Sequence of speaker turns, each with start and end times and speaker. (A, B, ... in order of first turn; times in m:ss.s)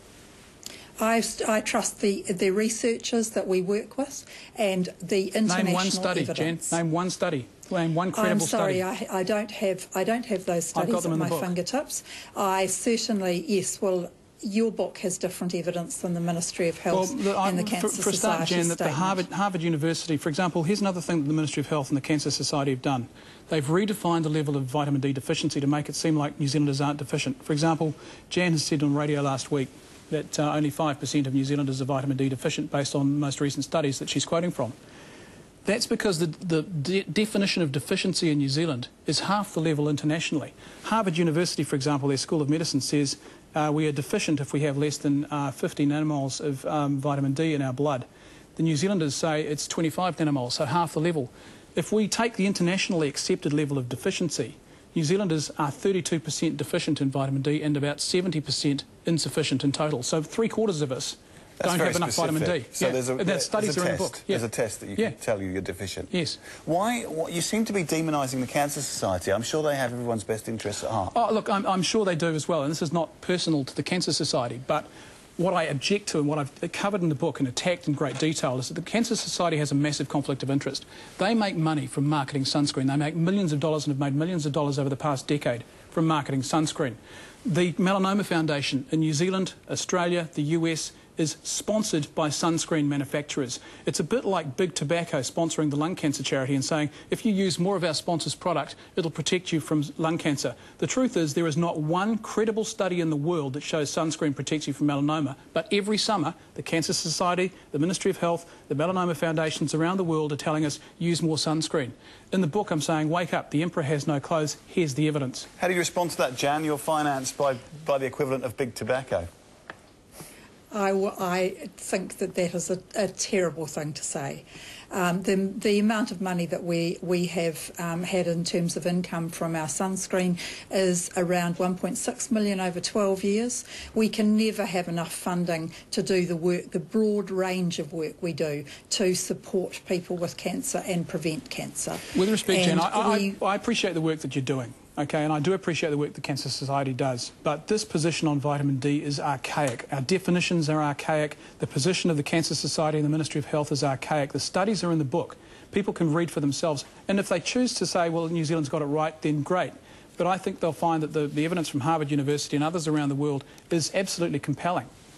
0:01.0-0:06.8 A
0:05.5-0:08.8 B
0:08.1-0:19.2 A
0:10.7-0:11.5 B
0:16.9-0:34.8 B
0:35.6-0:48.0 B
0:48.6-1:04.4 B
1:01.6-1:11.1 C
1:06.1-1:06.4 B
1:11.1-1:55.5 B
1:55.6-1:59.3 C
2:00.7-2:23.4 A
2:22.1-2:44.9 B